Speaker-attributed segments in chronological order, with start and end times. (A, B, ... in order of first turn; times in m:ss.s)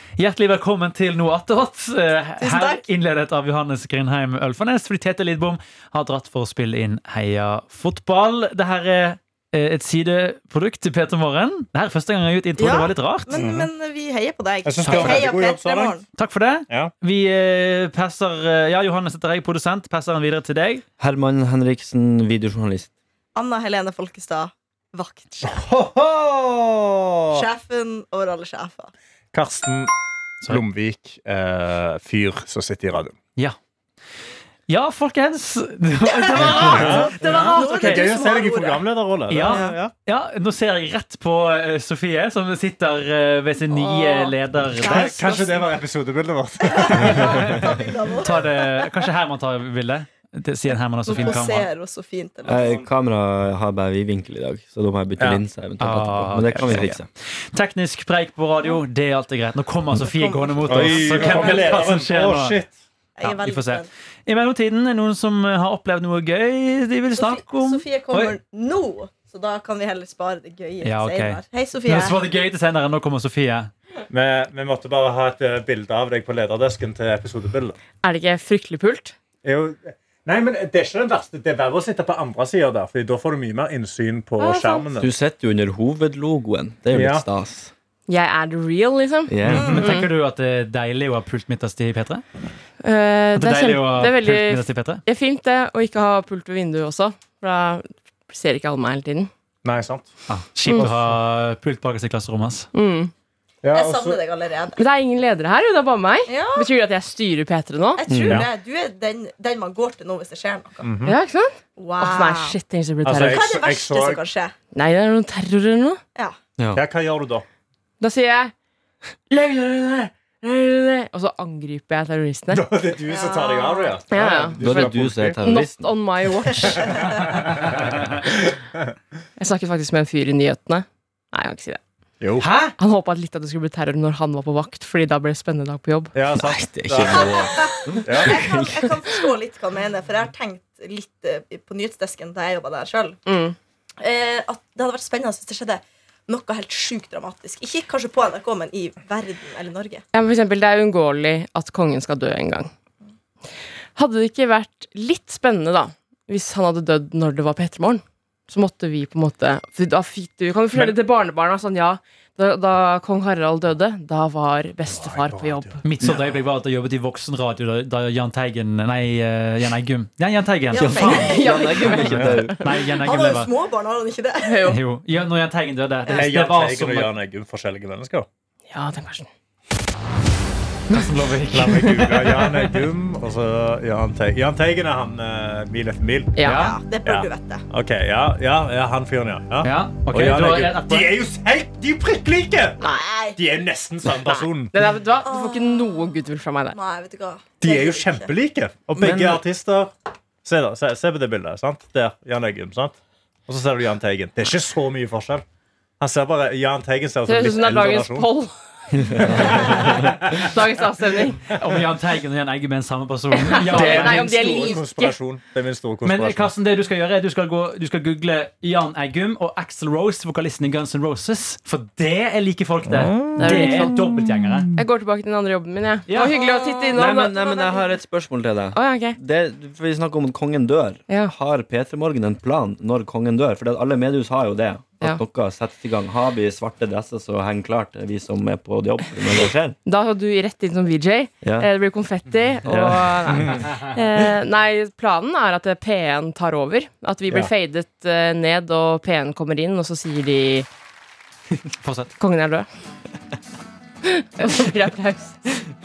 0:00.2-0:13.3 A
0:02.4-0:02.8 B
0:12.6-0:16.0 B
0:13.3-0:13.7 C
0:14.6-0:16.0 C
0:14.9-0:15.2 A
0:16.2-0:20.8 A
0:21.0-0:22.9 D
0:23.4-0:25.6 B
0:25.4-0:27.4 C
0:27.3-0:28.9 B
0:29.3-0:29.9 C
0:30.4-0:33.1 C
0:34.7-0:38.1 A
0:36.1-0:39.8 B
0:36.4-0:39.9 C
0:39.3-0:45.2 A
0:43.7-0:45.6 B
0:44.8-0:47.7 C
0:46.6-0:48.9 B
0:48.2-0:51.7 A
0:51.0-0:52.8 B
0:52.4-0:57.0 D
0:55.8-1:02.6 A
1:00.0-1:01.9 B
1:00.7-1:02.8 C
1:03.2-1:03.9 B
1:03.2-1:08.3 A
1:07.1-1:12.2 B
1:10.8-1:13.7 A
1:14.1-1:17.8 C
1:18.0-1:19.1 E
1:19.4-1:25.1 C
1:24.4-1:24.8 E
1:25.0-1:27.7 D
1:26.9-1:27.2 C
1:28.1-1:30.1 E
1:29.3-1:29.8 D
1:29.4-1:29.8 C
1:29.5-1:29.9 B
1:29.6-1:32.2 A
1:32.8-1:39.3 E
1:33.4-1:35.0 A
1:39.6-1:40.1 C
1:40.3-1:42.7 A
1:40.7-1:41.1 C
1:42.7-1:43.1 E
1:43.6-1:44.2 C
1:43.7-1:44.8 B
1:44.8-1:48.0 E
1:46.3-1:46.7 B
1:48.0-1:50.9 B
1:48.1-1:48.4 D
1:50.8-1:51.2 C
1:51.0-1:53.4 E
1:51.8-1:52.6 B
1:53.0-1:54.2 C
1:53.1-1:54.5 B
1:54.7-1:56.0 E
1:56.7-1:57.4 C
1:58.0-1:58.5 E
1:59.3-2:02.6 E
2:02.5-2:05.4 C
2:03.1-2:04.0 B
2:04.1-2:04.6 E
2:04.6-2:05.9 D
2:05.4-2:06.9 E
2:06.7-2:07.2 B
2:06.8-2:08.0 C
2:09.4-2:11.8 E
2:12.2-2:12.7 C
2:12.4-2:12.7 A
2:12.8-2:16.1 E
2:16.1-2:17.5 C
2:16.4-2:18.9 D
2:17.1-2:23.2 B
2:18.0-2:18.4 C
2:23.2-2:23.6 E
2:24.0-2:30.0 B
2:30.1-2:32.7 E
2:34.0-2:45.8 E
2:44.9-2:46.2 C
2:45.8-2:51.4 A
2:50.7-2:51.9 B
2:50.8-2:52.7 D
2:51.0-2:52.5 E
2:52.1-2:52.4 C
2:52.4-2:53.5 A
2:53.0-2:54.7 B
2:54.4-2:54.8 E
2:54.6-2:57.1 A
2:56.1-2:58.3 C
2:58.7-2:59.3 E
3:00.9-3:02.7 A
3:01.5-3:06.3 C
3:06.4-3:06.7 E
3:06.4-3:06.8 A
3:06.4-3:07.7 B
3:07.0-3:12.8 C
3:09.6-3:11.2 A
3:12.8-3:13.4 B
3:13.4-3:14.7 C
3:14.3-3:16.8 E
3:15.2-3:16.2 B
3:16.7-3:18.3 B
3:17.6-3:19.9 C
3:19.0-3:19.4 D
3:20.4-3:23.0 C
3:23.5-3:25.4 C
3:26.0-3:28.3 C
3:27.3-3:28.5 E
3:29.0-3:31.4 E
3:29.2-3:30.5 C
3:31.5-3:34.3 A
3:33.3-3:35.2 E
3:33.6-3:36.5 C
3:36.0-3:44.7 A
3:42.9-3:44.7 C
3:43.4-3:44.0 E
3:44.8-3:47.4 E
3:46.1-3:46.3 A
3:46.2-3:47.9 B
3:46.9-3:59.8 D
3:48.8-3:49.2 E
3:59.8-4:10.7 E
4:01.4-4:01.7 D
4:02.7-4:03.4 D
4:11.8-4:12.1 A
4:12.2-4:12.7 E
4:14.0-4:15.6 E